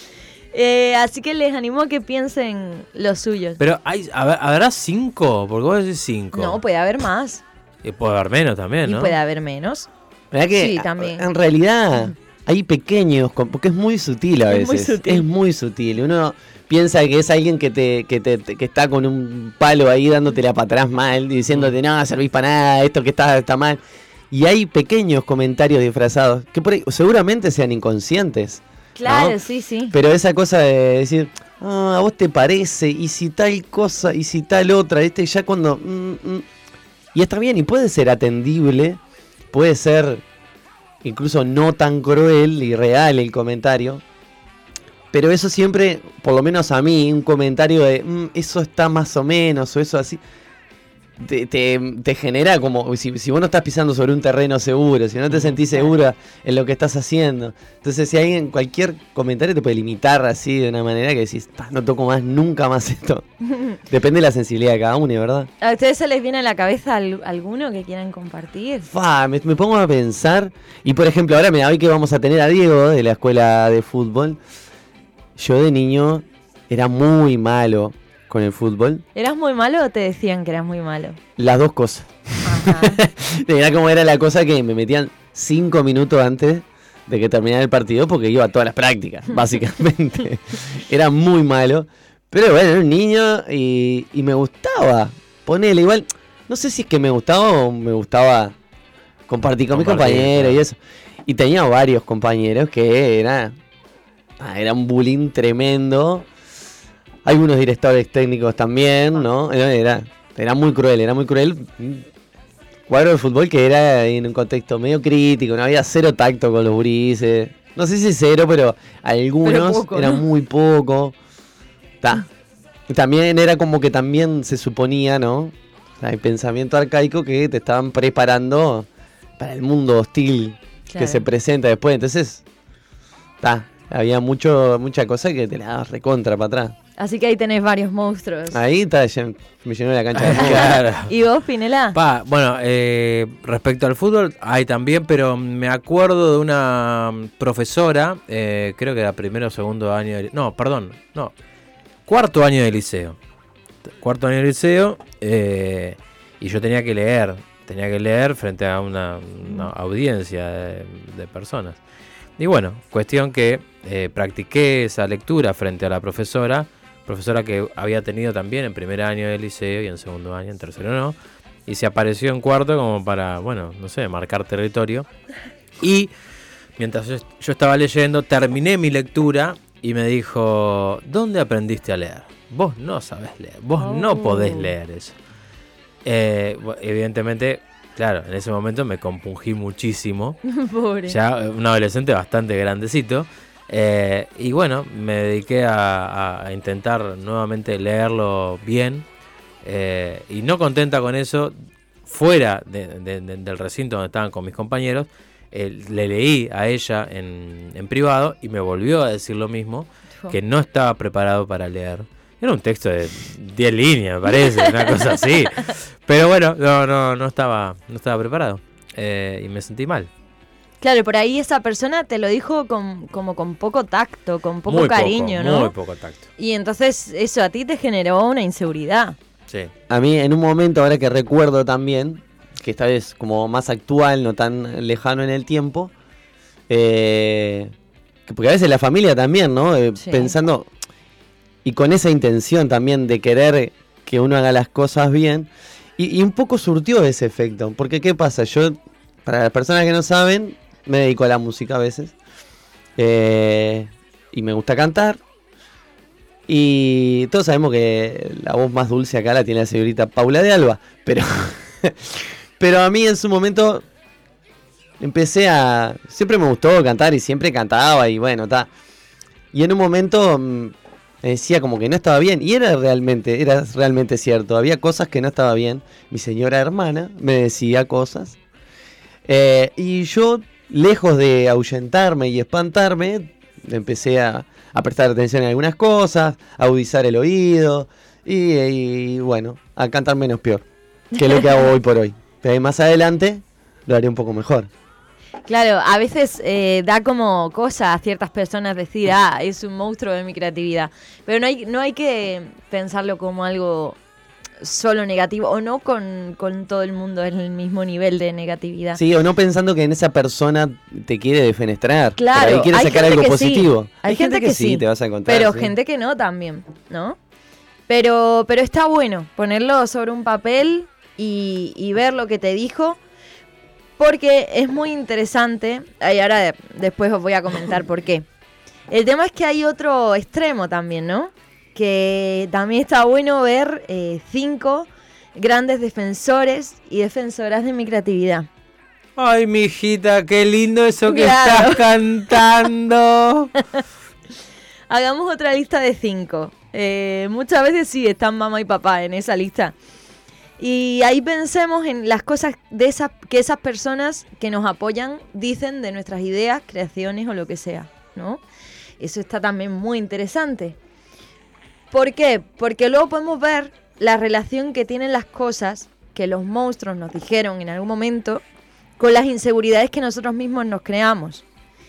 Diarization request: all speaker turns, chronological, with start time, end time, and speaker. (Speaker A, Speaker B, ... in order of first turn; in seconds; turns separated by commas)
Speaker A: 0.5-3.6, Speaker B: 3.6-6.6, Speaker A: 6.3-7.4, Speaker B: 7.8-9.2, Speaker A: 8.8-9.9, Speaker C: 10.3-23.8, Speaker A: 10.6-11.3, Speaker A: 14.5-15.3, Speaker C: 24.3-29.4, Speaker A: 28.9-29.9, Speaker C: 29.9-36.5, Speaker C: 37.1-39.0, Speaker C: 39.5-40.2, Speaker C: 41.0-44.0, Speaker C: 45.1-50.2, Speaker C: 51.2-63.3, Speaker B: 55.3-55.6, Speaker C: 63.8-65.5, Speaker A: 65.6-68.9, Speaker C: 68.9-74.4, Speaker C: 75.3-79.0, Speaker A: 79.2-81.2, Speaker C: 81.4-98.6, Speaker A: 82.4-83.0, Speaker C: 99.3-103.6, Speaker B: 99.7-100.6, Speaker C: 104.4-106.3, Speaker C: 107.2-112.1, Speaker C: 112.9-121.2, Speaker A: 119.4-120.3, Speaker C: 122.0-122.3, Speaker C: 122.9-128.9, Speaker C: 129.4-132.4, Speaker A: 130.9-131.2, Speaker C: 133.4-136.8, Speaker A: 137.0-138.6, Speaker C: 138.5-140.8, Speaker B: 140.1-141.1, Speaker A: 140.3-142.0, Speaker B: 141.9-151.3, Speaker B: 152.1-153.2, Speaker B: 153.9-161.8, Speaker B: 162.4-171.2, Speaker B: 171.7-175.1, Speaker B: 175.8-176.1, Speaker B: 176.8-185.2, Speaker A: 183.8-184.7, Speaker B: 186.0-190.4, Speaker A: 190.4-191.2, Speaker B: 191.1-199.1, Speaker B: 199.6-201.5, Speaker B: 202.1-220.1, Speaker A: 214.5-215.7, Speaker A: 220.8-225.7, Speaker B: 224.7-226.2, Speaker A: 226.4-229.2, Speaker C: 229.9-235.9, Speaker C: 236.7-237.7, Speaker C: 238.3-240.7, Speaker A: 240.0-240.3, Speaker C: 241.6-252.2, Speaker C: 253.0-255.2, Speaker C: 256.5-263.9, Speaker C: 265.0-268.7, Speaker C: 269.5-278.4, Speaker C: 279.3-294.7, Speaker A: 295.5-304.0, Speaker A: 304.6-309.0, Speaker C: 308.9-315.7, Speaker A: 312.2-317.2, Speaker A: 317.9-323.0, Speaker A: 324.0-328.3, Speaker A: 328.9-338.5, Speaker B: 339.2-343.5, Speaker A: 341.1-342.6, Speaker A: 344.9-349.7, Speaker A: 350.6-358.4, Speaker A: 359.0-360.8, Speaker A: 361.9-368.4, Speaker A: 369.0-371.4